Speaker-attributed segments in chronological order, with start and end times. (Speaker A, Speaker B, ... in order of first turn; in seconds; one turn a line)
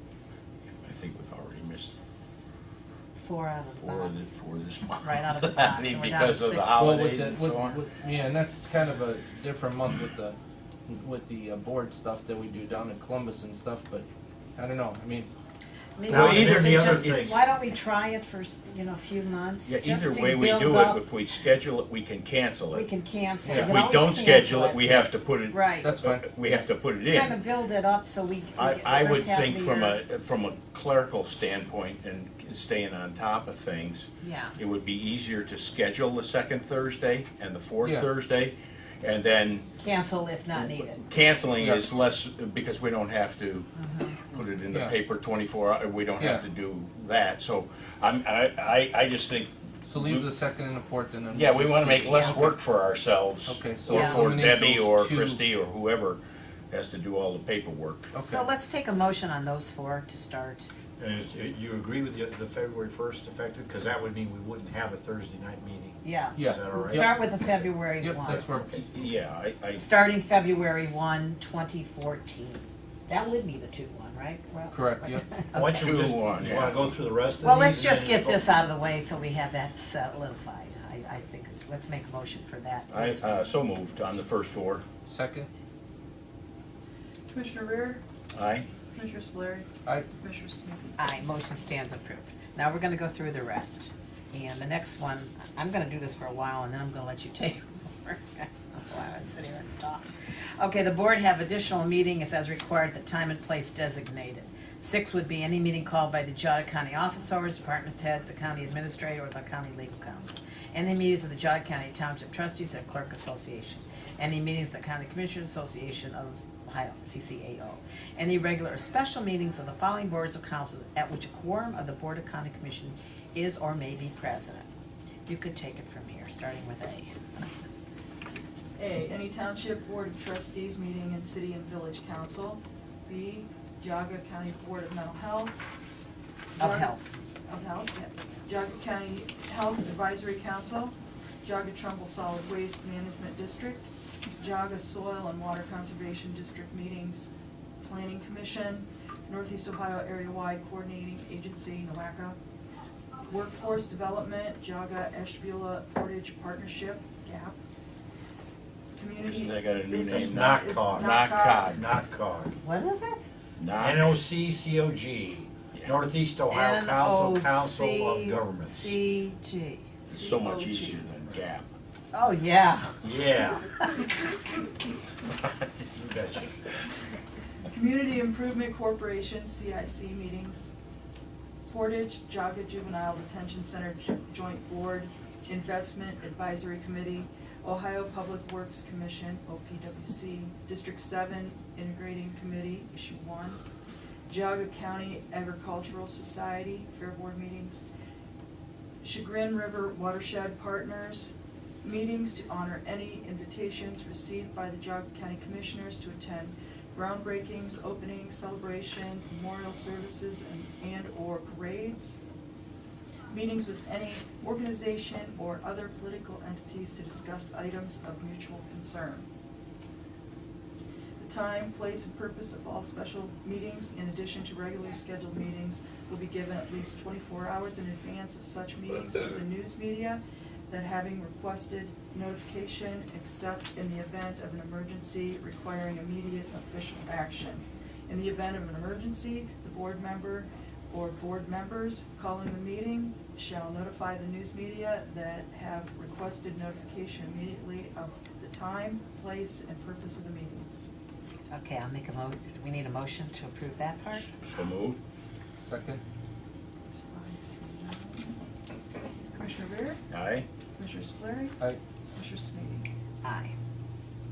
Speaker A: 0.8-2.0
Speaker B: 3.2-4.3
Speaker A: 3.8-7.8
Speaker B: 5.0-6.9
Speaker C: 6.7-10.3
Speaker C: 10.9-15.3
Speaker B: 16.0-21.0
Speaker D: 16.1-17.4
Speaker A: 16.1-17.3
Speaker A: 19.6-22.9
Speaker B: 22.7-25.9
Speaker C: 23.4-23.8
Speaker A: 23.5-27.4
Speaker C: 25.8-26.6
Speaker B: 27.1-30.0
Speaker A: 28.6-39.7
Speaker B: 34.2-34.5
Speaker C: 37.8-38.1
Speaker B: 39.8-41.0
Speaker A: 41.0-43.7
Speaker B: 43.8-44.2
Speaker A: 44.2-50.3
Speaker C: 46.2-46.4
Speaker C: 49.9-52.5
Speaker A: 51.3-58.1
Speaker C: 53.5-55.4
Speaker B: 53.9-54.2
Speaker C: 58.1-58.4
Speaker B: 58.2-60.7
Speaker D: 61.0-67.1
Speaker B: 66.0-68.5
Speaker C: 66.3-67.2
Speaker C: 68.0-68.7
Speaker D: 68.2-68.8
Speaker A: 68.7-69.8
Speaker B: 69.8-76.0
Speaker C: 74.7-75.2
Speaker D: 75.5-78.5
Speaker A: 75.7-76.8
Speaker B: 77.4-83.2
Speaker A: 82.9-84.8
Speaker C: 85.1-85.5
Speaker E: 87.3-88.0
Speaker A: 88.3-88.7
Speaker E: 88.9-91.0
Speaker B: 91.0-124.7
Speaker B: 125.2-127.2
Speaker E: 128.8-135.6
Speaker B: 136.6-137.1
Speaker E: 136.6-136.9
Speaker E: 137.5-152.4
Speaker E: 153.3-157.6
Speaker E: 158.9-161.7
Speaker A: 159.2-161.9
Speaker D: 160.0-162.5
Speaker B: 162.6-163.2
Speaker A: 163.6-164.2
Speaker D: 163.8-169.0
Speaker B: 166.5-169.9
Speaker E: 170.1-171.1
Speaker A: 170.1-171.7
Speaker B: 172.1-174.1
Speaker D: 173.0-173.7
Speaker D: 175.8-176.5
Speaker E: 177.7-180.7
Speaker E: 181.7-193.6
Speaker E: 194.3-197.8
Speaker E: 199.0-212.2
Speaker E: 213.3-219.3
Speaker E: 221.2-250.7
Speaker B: 251.5-254.3
Speaker A: 254.4-255.0
Speaker C: 255.6-256.0
Speaker E: 256.9-258.4
Speaker E: 259.3-260.0
Speaker A: 260.1-260.5
Speaker E: 260.8-261.5
Speaker E: 262.1-262.9
Speaker B: 263.2-263.5